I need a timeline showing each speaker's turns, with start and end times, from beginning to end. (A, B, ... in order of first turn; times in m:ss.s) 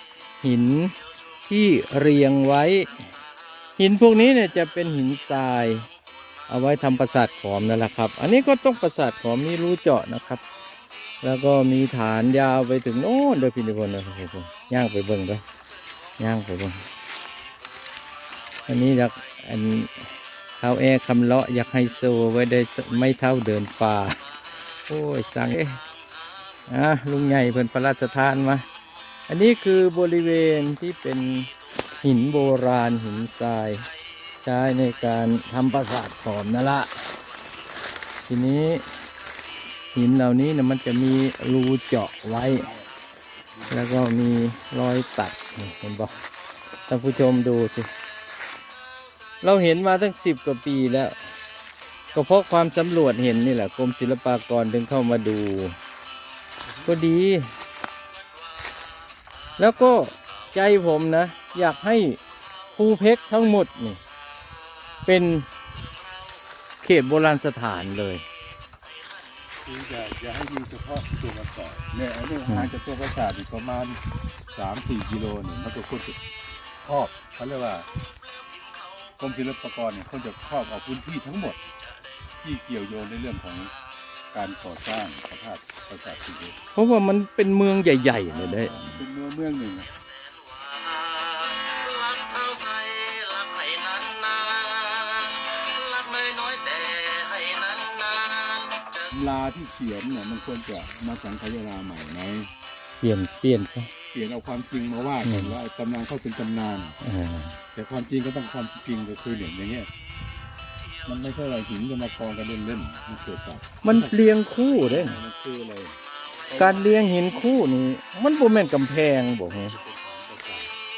0:00.4-0:00.9 A
0:01.5-0:03.1 A
0:03.8-0:05.9 A
0:06.5-0:10.4 A
0:11.2-0:15.4 A
0:16.2-0:16.8 A
0:18.7-0:20.1 A
0:20.6-0:24.2 A
0:24.9-0:25.8 A
0:26.7-0:28.6 A
0:29.3-0:31.5 A
0:32.0-0:33.8 A
0:34.4-0:36.9 A
0:38.3-0:38.8 A
0:39.9-0:42.7 A
0:42.5-0:42.9 B
0:43.6-0:44.2 B
0:43.7-0:46.1 A
0:46.9-0:47.9 A
0:49.4-0:51.1 A
0:52.1-0:55.8 A
0:56.6-0:57.1 B
0:56.8-0:57.5 A
0:59.6-1:02.2 A
1:02.7-1:04.0 A
1:05.0-1:05.5 A
1:06.8-1:08.2 A
1:09.6-1:14.0 B
1:14.5-1:16.2 B
1:16.8-1:17.9 B
1:19.2-1:21.6 B
1:22.4-1:23.7 B
1:24.3-1:26.6 B
1:26.7-1:29.0 A
1:28.3-1:29.9 B
1:32.4-1:35.2 C
1:36.1-1:38.3 C
1:39.1-1:42.5 B
1:43.0-1:43.9 A
1:44.1-1:47.0 B
1:45.2-1:45.6 A
1:47.0-1:47.6 A
1:47.7-1:49.9 B
1:51.0-1:54.2 B
1:53.8-1:55.2 A
1:54.7-1:56.9 B
1:56.6-1:59.8 A
1:59.4-2:00.7 B